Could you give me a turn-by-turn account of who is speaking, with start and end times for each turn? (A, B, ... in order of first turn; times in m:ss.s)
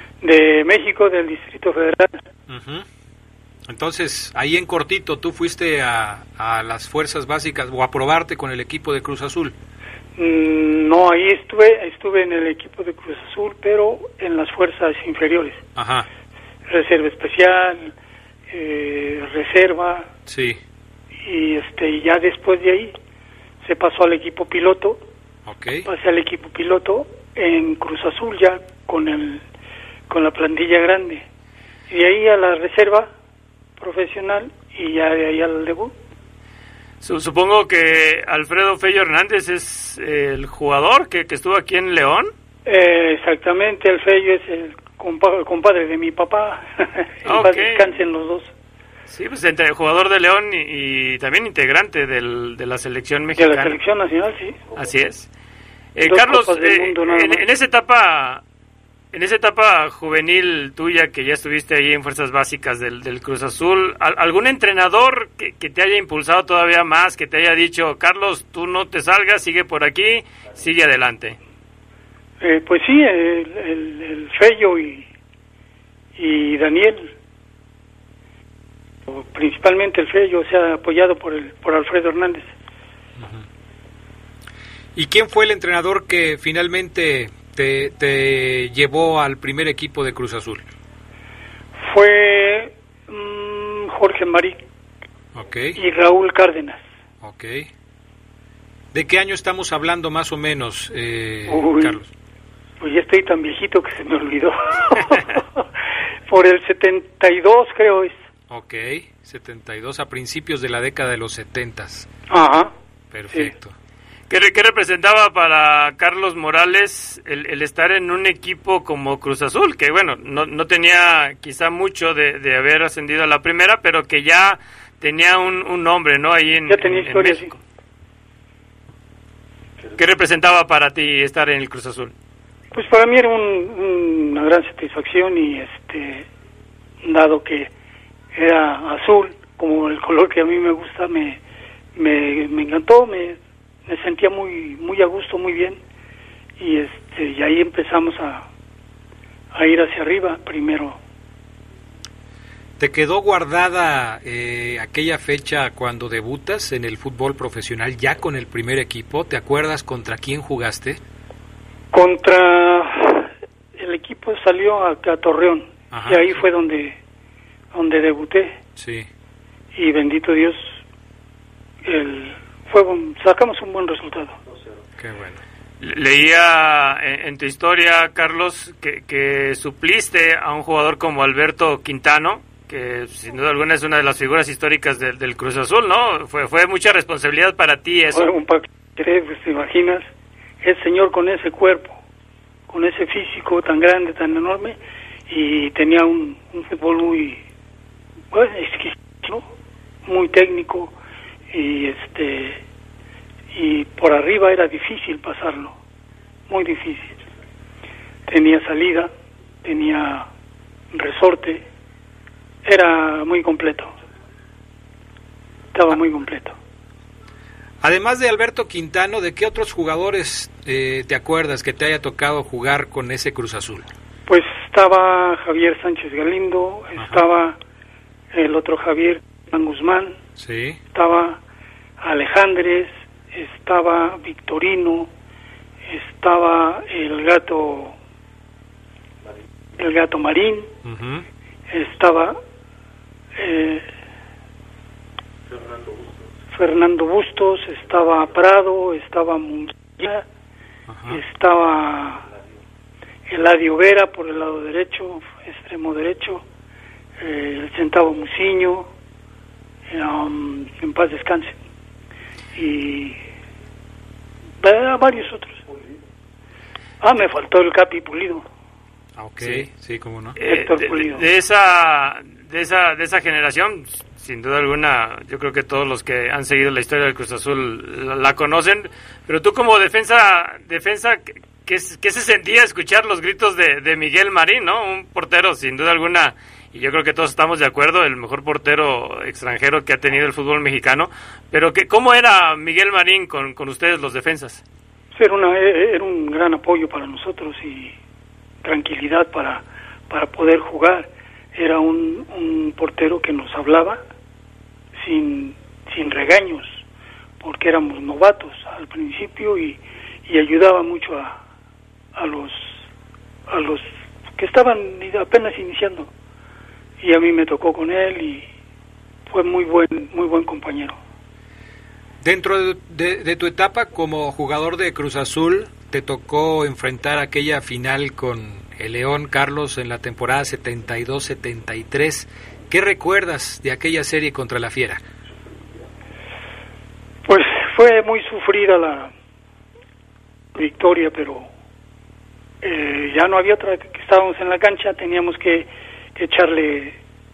0:00.2-0:02.2 A
0:02.5-0:02.9 B
0:03.7-0:09.6 B
0:10.2-0:15.6 A
0:15.8-0:16.1 B
0:16.7-0:17.9 A
0:18.5-0:20.1 A
0:20.3-0:20.6 B
0:21.2-0:23.0 A
0:23.6-0:25.0 A
0:25.5-0:25.9 B
0:25.9-0:29.4 A
0:30.1-0:31.2 A
0:31.9-0:33.1 A
0:33.8-0:35.9 A
0:37.0-0:42.3 C
0:42.7-0:48.5 A
0:47.3-0:47.9 C
0:49.1-0:53.8 C
0:53.4-0:54.6 A
0:54.8-0:55.3 C
0:56.0-0:58.4 C
0:56.1-0:57.4 A
0:59.1-1:11.4 C
1:12.4-1:15.1 A
1:16.2-1:17.2 A
1:19.1-1:22.5 A
1:23.2-1:23.5 B
1:25.0-1:30.6 B
1:31.8-1:34.6 A
1:35.4-1:35.8 B
1:35.8-1:36.8 A
1:37.2-1:37.7 B
1:38.9-1:42.1 B
1:41.5-1:42.0 A
1:42.8-1:45.6 A
1:46.3-1:48.2 A
1:48.5-1:52.1 B
1:52.3-1:52.7 A
1:53.1-1:53.7 B
1:54.3-2:07.6 C
2:06.7-2:07.5 A
2:10.0-2:12.1 C
2:12.7-2:16.3 A
2:17.0-2:17.7 A
2:18.3-2:21.4 A
2:22.0-2:25.8 A
2:26.6-2:28.5 A
2:29.5-2:31.0 A
2:32.8-2:41.0 B
2:41.9-2:47.0 A
2:45.9-2:46.4 B
2:47.7-2:48.6 A
2:48.8-2:49.1 B
2:49.8-2:50.8 A
2:51.8-2:54.4 A
2:55.0-2:55.4 B
2:55.8-3:08.3 C
3:08.1-3:10.1 A
3:10.6-3:12.0 A
3:12.7-3:14.8 A
3:15.3-3:17.4 A
3:18.3-3:19.5 A
3:20.1-3:21.0 A
3:21.5-3:22.6 A
3:23.5-3:25.8 A
3:26.5-3:27.2 A
3:28.3-3:29.1 A
3:29.6-3:30.3 A
3:30.9-3:31.6 A
3:32.6-3:33.9 A
3:35.7-3:36.6 A
3:37.8-3:43.9 B
3:44.3-3:47.6 A
3:47.0-3:47.2 B
3:48.3-3:50.2 A
3:50.4-3:50.8 B
3:50.9-3:51.4 A
3:52.0-3:55.1 A
3:55.9-3:58.0 A
3:59.8-4:00.7 A
4:00.8-4:01.3 B
4:01.7-4:02.4 A
4:03.4-4:03.9 A
4:06.5-4:10.3 A
4:10.9-4:11.2 B
4:11.1-4:12.3 A
4:13.3-4:16.4 A
4:17.2-4:18.9 A
4:19.9-4:21.6 A
4:22.6-4:23.2 A
4:24.6-4:25.6 A
4:27.0-4:28.4 A
4:29.2-4:30.4 B
4:29.4-4:29.7 C
4:30.4-4:54.6 C
4:30.4-4:31.2 A
4:55.2-4:58.0 A
4:58.6-5:04.0 A
5:05.0-5:06.8 A
5:07.4-5:11.4 A
5:12.2-5:12.8 A
5:13.5-5:13.9 A
5:14.4-5:16.1 A
5:17.0-5:18.5 A
5:19.3-5:21.0 A
5:22.2-5:35.0 B
5:37.2-5:39.1 A
5:40.6-5:41.5 A
5:42.6-5:47.0 A